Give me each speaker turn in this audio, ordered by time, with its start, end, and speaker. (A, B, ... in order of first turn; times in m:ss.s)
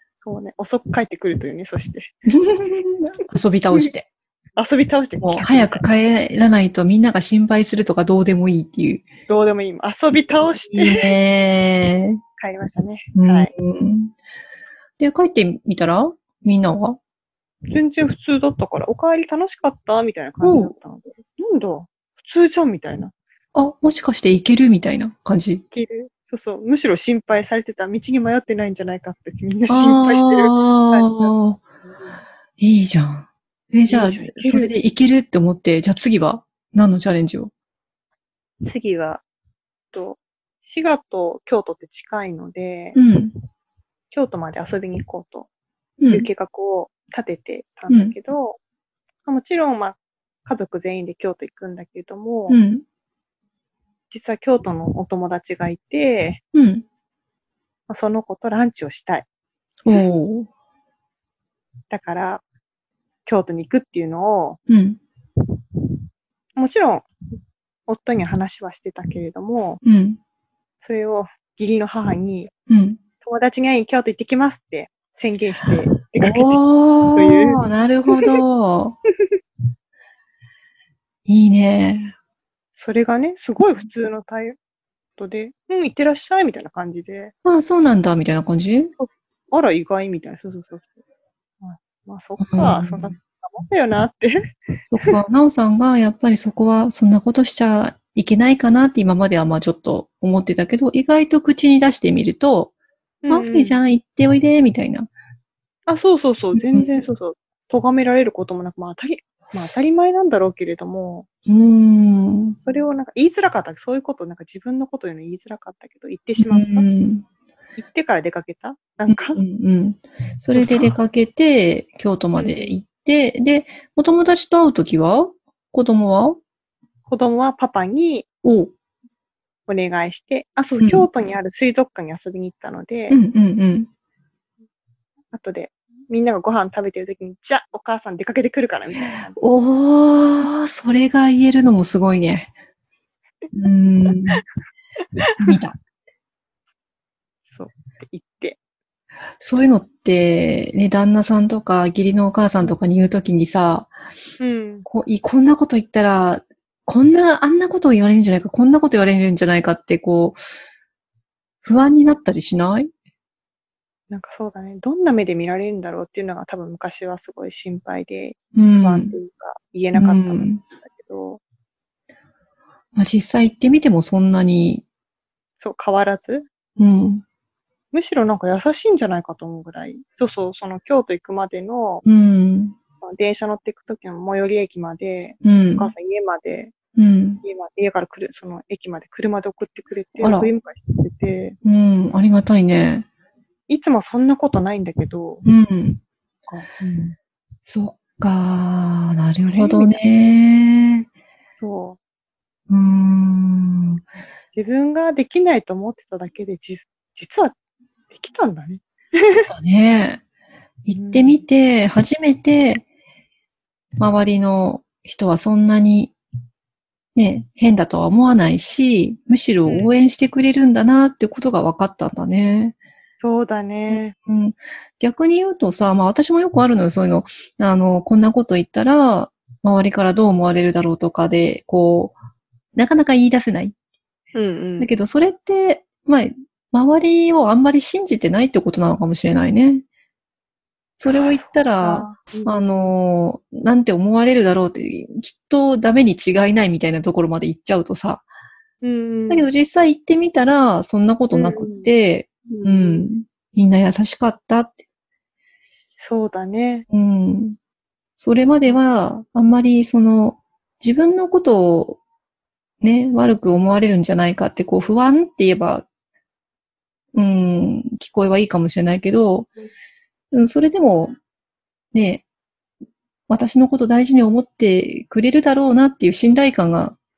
0:00.2-0:02.1 A
0:02.3-0:04.1 B
0:04.6-0:05.8 A
0:05.2-0:09.0 B
0:09.3-0:11.1 A
0:10.7-0:12.2 B
0:12.4-0:13.5 A
0:13.1-0:14.1 B
0:15.0-0:17.0 B
0:17.7-0:23.1 A
0:20.4-0:20.7 B
0:23.5-0:25.6 B
0:25.7-0:31.3 A
0:29.7-0:31.6 B
0:32.6-0:37.5 B
0:33.9-0:34.7 A
0:38.6-0:39.2 A
0:39.9-0:43.0 A
0:42.9-0:43.3 B
0:44.1-0:45.5 A
0:46.0-0:46.3 B
0:46.1-0:48.6 A
0:47.9-0:48.1 B
0:49.2-0:52.6 A
0:52.5-0:52.8 B
0:54.1-0:56.4 A
0:56.5-0:56.8 B
0:57.9-0:59.2 A
0:59.8-1:00.5 B
1:01.9-1:02.4 A
1:03.2-1:04.6 A
1:04.7-1:05.0 B
1:06.6-1:07.1 A
1:07.9-1:09.8 A
1:09.8-1:10.2 B
1:10.8-1:12.5 A
1:12.7-1:13.0 B
1:13.2-1:17.6 A
1:16.2-1:18.9 B
1:21.3-1:22.1 B
1:22.8-1:24.6 A
1:25.2-1:27.3 A
1:27.4-1:28.9 B
1:28.9-1:30.8 A
1:31.6-1:35.1 A
1:32.4-1:33.1 B
1:34.9-1:42.7 B
1:43.2-1:43.8 A
1:43.3-1:45.1 B
1:45.9-1:51.2 A
1:46.5-1:46.9 B
1:51.5-1:52.6 B
1:52.6-1:56.8 A
1:56.4-1:57.2 B
1:57.8-1:59.4 A
1:59.1-2:06.4 B
2:00.5-2:00.9 A
2:02.4-2:02.8 A
2:07.1-2:08.2 A
2:08.4-2:08.7 B
2:09.7-2:13.2 A
2:10.8-2:11.1 B
2:13.1-2:13.9 B
2:15.3-2:19.4 A
2:19.4-2:22.5 B
2:23.5-2:24.4 B
2:24.1-2:24.4 A
2:25.4-2:25.8 B
2:27.4-2:28.6 A
2:29.4-2:33.9 B
2:34.4-2:34.9 A
2:34.9-2:40.4 B
2:41.6-2:42.9 B
2:44.1-2:51.4 A
2:48.5-2:49.2 B
2:49.9-2:50.6 B
2:53.0-2:54.8 B
2:55.6-2:56.5 A
2:56.8-2:57.2 B
2:57.9-3:02.0 A
3:02.0-3:02.7 B
3:03.0-3:06.7 A
3:05.4-3:05.9 B
3:07.0-3:07.4 B
3:07.4-3:11.6 A
3:10.2-3:10.5 B
3:11.6-3:13.0 B
3:13.7-3:15.4 A
3:15.4-3:16.0 B
3:16.5-3:17.1 A
3:17.6-3:21.0 B
3:19.5-3:20.0 A
3:21.5-3:22.0 A
3:22.7-3:24.0 B
3:24.5-3:27.5 A
3:28.1-3:29.5 A
3:29.2-3:30.2 B
3:30.8-3:32.8 B
3:30.9-3:31.4 A
3:34.0-3:36.1 B
3:37.1-3:42.8 B
3:39.6-3:39.9 A
3:43.2-3:44.1 A
3:43.9-3:52.2 B
3:52.7-3:53.7 B
3:54.3-3:54.9 A
3:54.8-3:59.8 B
4:01.0-4:08.2 B
4:01.0-4:02.9 A
4:08.8-4:09.5 A
4:09.3-4:14.8 B
4:11.3-4:11.9 A
4:12.5-4:13.1 A
4:16.0-4:16.8 A
4:16.9-4:17.6 B
4:18.2-4:22.0 B
4:22.8-4:25.8 B
4:27.1-4:29.5 B
4:30.3-4:31.1 B
4:31.9-4:32.2 B
4:33.3-4:37.0 B